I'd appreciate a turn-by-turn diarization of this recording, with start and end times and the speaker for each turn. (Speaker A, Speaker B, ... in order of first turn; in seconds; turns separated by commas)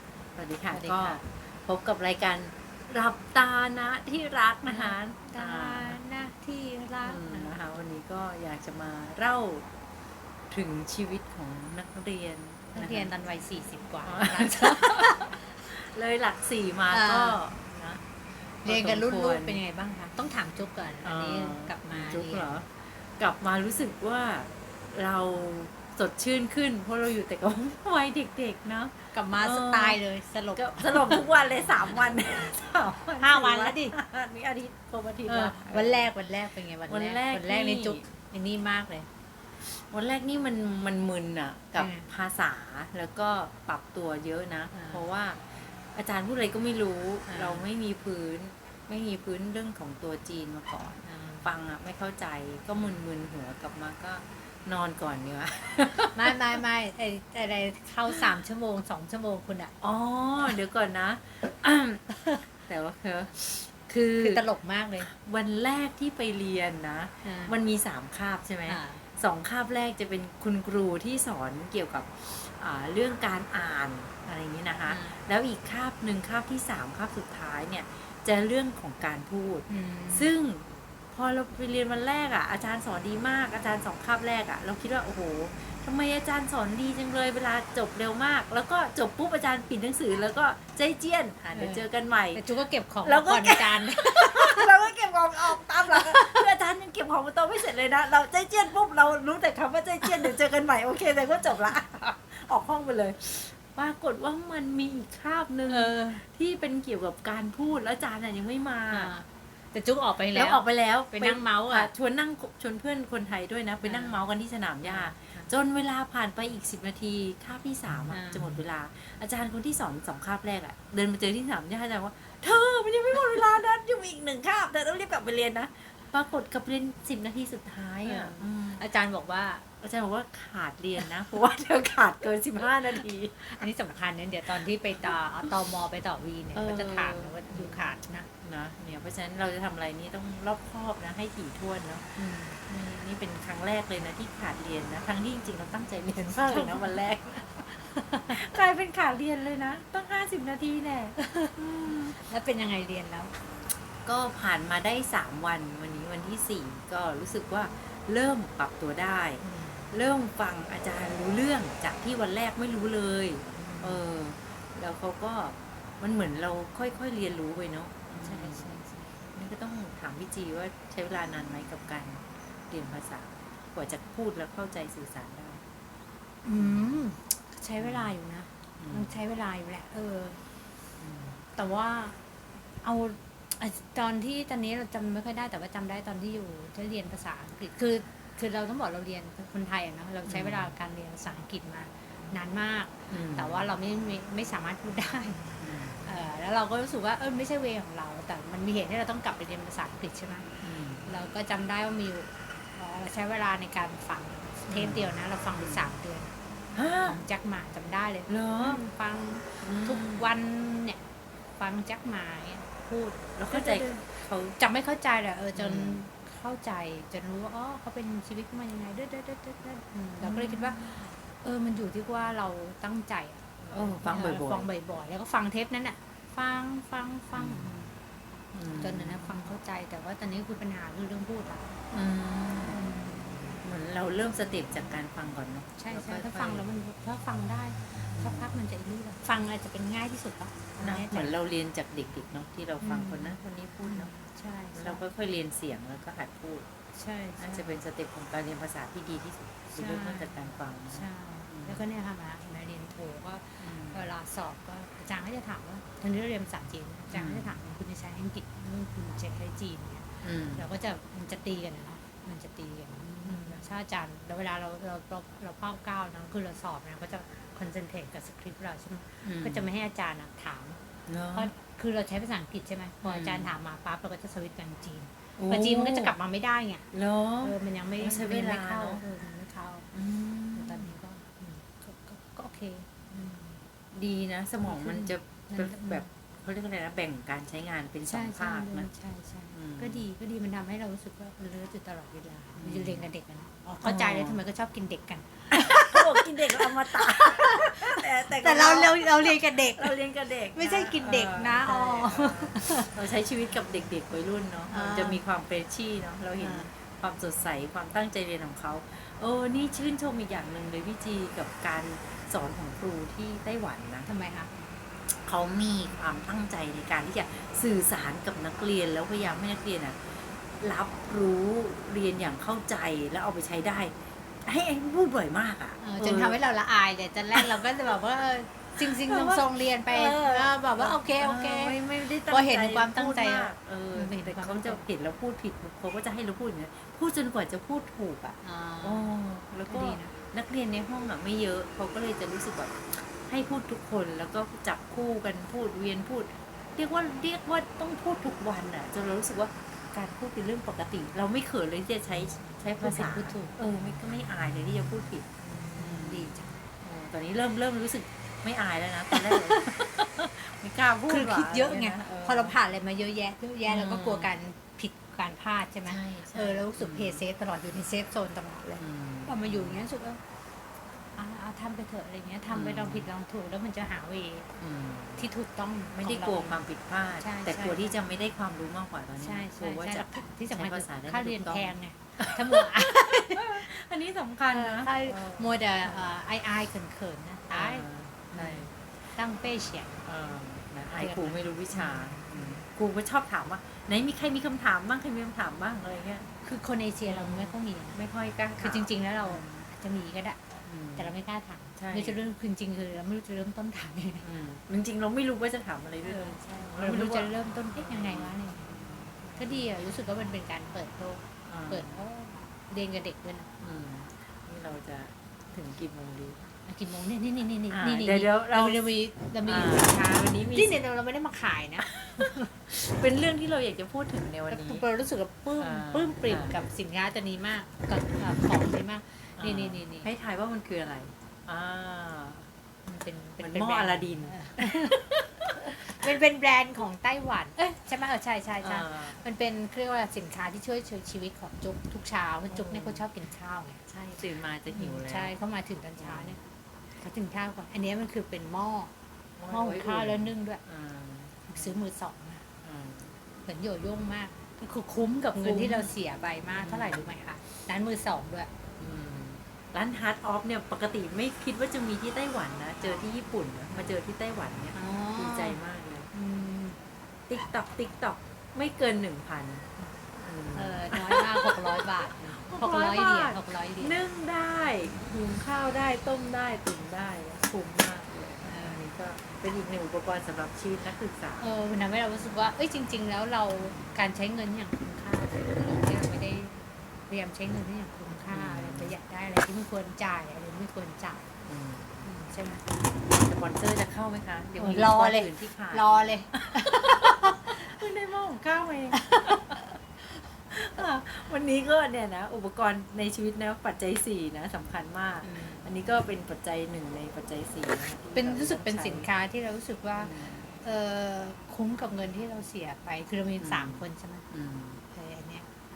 Speaker A: 0.3-6.0, Speaker B: 0.7-1.2, Speaker B: 4.7-7.5, Speaker A: 7.0-9.7, Speaker A: 10.5-13.1, Speaker B: 12.7-15.4, Speaker A: 14.1-19.6, Speaker B: 16.9-17.4, Speaker B: 18.6-22.6, Speaker A: 21.0-30.0, Speaker B: 29.1-31.2, Speaker A: 30.5-36.1, Speaker B: 33.2-34.0, Speaker B: 35.3-39.1, Speaker A: 36.9-38.1, Speaker A: 39.6-56.3, Speaker B: 41.8-42.1, Speaker B: 44.7-45.0, Speaker B: 47.3-47.7, Speaker B: 51.0-51.5, Speaker B: 56.1-59.7, Speaker A: 59.8-64.4, Speaker B: 64.2-65.1, Speaker A: 65.0-92.4, Speaker B: 67.2-67.5, Speaker B: 68.7-69.0, Speaker B: 74.9-75.2, Speaker B: 79.7-80.3, Speaker B: 91.5-94.9, Speaker A: 93.0-109.1, Speaker B: 95.5-96.4, Speaker B: 105.7-106.2, Speaker B: 108.9-111.9, Speaker A: 110.3-128.8, Speaker B: 113.8-114.2, Speaker B: 114.8-115.5, Speaker B: 118.1-118.6, Speaker B: 128.1-129.7, Speaker A: 129.8-133.6, Speaker B: 133.4-138.3, Speaker A: 134.6-135.4, Speaker A: 136.6-137.8, Speaker A: 138.4-152.2, Speaker B: 142.2-142.6, Speaker B: 146.4-147.0, Speaker B: 147.9-148.4, Speaker B: 151.2-153.3, Speaker A: 154.1-168.7, Speaker B: 159.4-159.9, Speaker B: 163.5-164.0, Speaker B: 168.2-169.2, Speaker A: 169.3-175.6, Speaker B: 176.4-180.4, Speaker A: 176.6-177.0, Speaker A: 177.8-178.1, Speaker A: 178.8-179.2, Speaker A: 181.0-181.5, Speaker B: 181.6-182.2, Speaker B: 182.8-200.5, Speaker A: 190.3-190.7, Speaker A: 193.1-193.7, Speaker A: 195.6-196.1, Speaker A: 200.6-201.1, Speaker B: 201.1-206.3, Speaker A: 204.7-205.9, Speaker A: 206.8-207.2, Speaker B: 207.1-211.0, Speaker A: 208.3-208.8, Speaker A: 209.6-210.3, Speaker B: 211.6-227.9, Speaker A: 213.4-214.5, Speaker A: 215.6-216.0, Speaker A: 220.2-221.2, Speaker A: 223.6-224.7, Speaker A: 227.3-227.8, Speaker A: 228.5-229.5, Speaker B: 228.8-231.8, Speaker A: 231.9-232.9, Speaker B: 232.7-233.6, Speaker A: 233.6-236.7, Speaker B: 235.8-241.3, Speaker A: 238.1-238.6, Speaker A: 240.8-244.1, Speaker B: 242.8-245.0, Speaker A: 244.8-246.7, Speaker B: 246.9-247.8, Speaker A: 247.4-251.8, Speaker B: 249.8-250.3, Speaker B: 250.9-270.8, Speaker A: 253.6-254.1, Speaker A: 257.1-257.6, Speaker A: 260.2-260.7, Speaker A: 263.2-263.7, Speaker A: 269.2-269.7, Speaker A: 271.1-271.5, Speaker B: 271.3-276.9, Speaker A: 273.0-273.5, Speaker A: 275.4-276.1, Speaker A: 276.9-279.0, Speaker B: 277.4-279.9, Speaker A: 279.9-281.0, Speaker B: 280.6-283.6, Speaker A: 283.9-288.9, Speaker B: 284.7-286.1, Speaker B: 288.1-300.0, Speaker A: 289.5-290.1, Speaker A: 292.6-293.0, Speaker A: 293.8-294.4, Speaker A: 295.5-314.1, Speaker B: 300.5-303.0, Speaker B: 304.7-305.2, Speaker B: 306.4-306.7, Speaker B: 314.1-314.5, Speaker A: 315.1-326.4, Speaker B: 325.8-334.8, Speaker A: 327.3-327.6, Speaker A: 328.8-362.6, Speaker B: 338.4-339.1, Speaker B: 339.7-340.1, Speaker B: 352.8-353.6, Speaker B: 355.4-356.6, Speaker B: 359.1-360.1, Speaker B: 361.1-370.2, Speaker A: 363.7-364.3, Speaker A: 365.9-367.2, Speaker A: 368.8-369.8, Speaker B: 371.2-374.5, Speaker A: 372.5-373.1, Speaker A: 374.6-375.3, Speaker B: 375.2-376.6, Speaker A: 375.9-382.7, Speaker B: 377.2-378.0, Speaker B: 379.2-383.6, Speaker A: 383.3-386.1, Speaker B: 384.5-390.0, Speaker A: 387.5-388.8, Speaker A: 390.1-396.3, Speaker B: 390.9-392.6, Speaker B: 396.4-398.0, Speaker A: 397.1-399.7, Speaker B: 398.6-400.4, Speaker A: 400.7-401.1, Speaker B: 401.0-404.3, Speaker A: 401.8-402.2, Speaker A: 404.2-409.7, Speaker B: 406.1-413.5, Speaker A: 411.4-412.0, Speaker A: 413.6-416.5, Speaker B: 416.6-422.5, Speaker A: 417.7-418.9, Speaker A: 419.4-420.9, Speaker A: 421.8-424.8, Speaker B: 424.5-430.1, Speaker A: 425.6-426.6, Speaker A: 429.4-432.5, Speaker B: 432.9-443.8, Speaker A: 433.4-434.9, Speaker A: 438.6-439.2, Speaker A: 442.5-443.1, Speaker A: 443.9-445.3, Speaker B: 444.7-446.4, Speaker A: 446.0-446.4, Speaker B: 447.0-448.9, Speaker A: 449.4-451.8, Speaker B: 449.5-450.6, Speaker B: 451.5-452.5, Speaker A: 452.6-453.2, Speaker B: 453.5-458.5, Speaker A: 455.4-455.9, Speaker A: 456.6-457.1, Speaker A: 458.8-466.1, Speaker B: 464.7-465.6, Speaker B: 466.1-466.8, Speaker A: 467.3-469.7, Speaker A: 470.2-481.5, Speaker B: 470.6-474.0, Speaker B: 478.4-478.8, Speaker B: 481.4-486.6, Speaker A: 483.6-483.9, Speaker B: 487.1-491.3, Speaker A: 488.3-489.0, Speaker A: 491.4-492.1, Speaker B: 492.0-492.6, Speaker A: 492.8-499.7, Speaker B: 494.6-497.6, Speaker B: 498.9-499.6, Speaker A: 500.5-509.1, Speaker B: 505.2-505.6, Speaker B: 508.1-514.2, Speaker A: 509.9-510.5, Speaker A: 513.4-514.8, Speaker B: 514.9-515.5